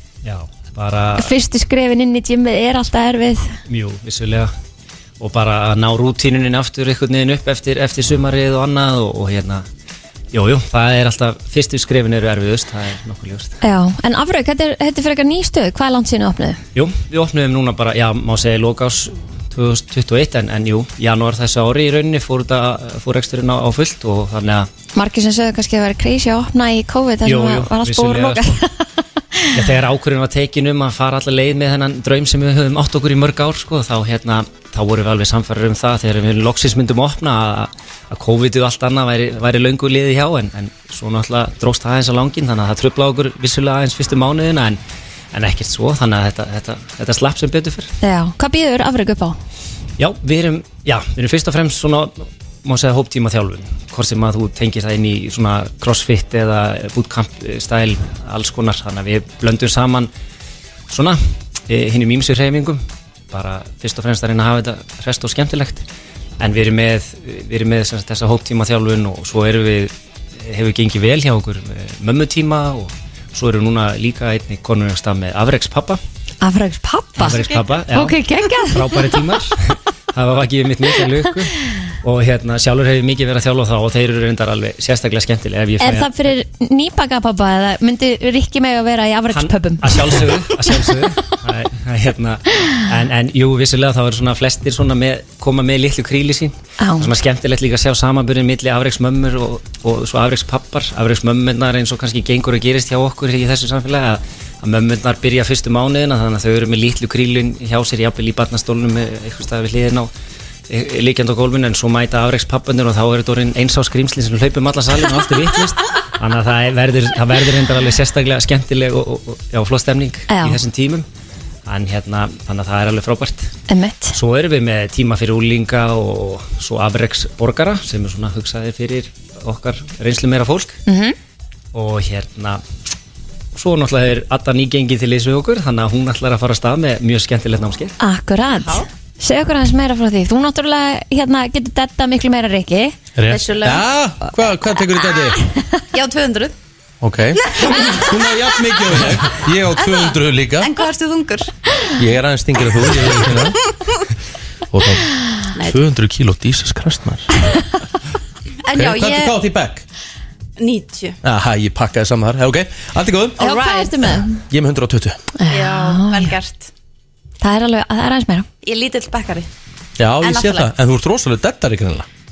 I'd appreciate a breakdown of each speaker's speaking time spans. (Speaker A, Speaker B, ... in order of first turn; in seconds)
Speaker A: 0.2-1.3, 3.7-4.5, 5.2-9.7, 10.3-13.6, 16.7-24.7, 27.2-28.6, 29.5-44.8, 45.3-47.9, 50.0-60.1, 60.9-65.8, 66.4-76.0, 77.2-86.2, 89.3-110.1, 110.7-121.0, 121.7-123.5, 124.1-130.8, 131.7-132.6, 133.5-137.9
Speaker B: 1.1-3.5, 13.6-16.6, 24.9-29.6, 48.0-49.4, 76.4-79.2, 85.8-90.2, 96.8-97.1, 120.3-120.6, 123.7-124.2, 130.9-131.2, 138.0-143.0, 163.4-164.4, 165.4-166.3, 167.4-168.5
Speaker C: 138.6-138.8, 143.2-143.8, 145.9-146.5, 147.4-148.3, 149.8-151.5, 155.5-155.8, 158.6-159.4, 160.6-161.2, 163.4-163.9, 165.5-166.7, 168.6-169.5, 170.2-170.7
Speaker D: 143.2-145.4, 147.0-150.7, 152.0-153.6, 154.7-157.3, 158.7-159.8, 161.2-163.5, 164.5-165.2, 170.0-172.1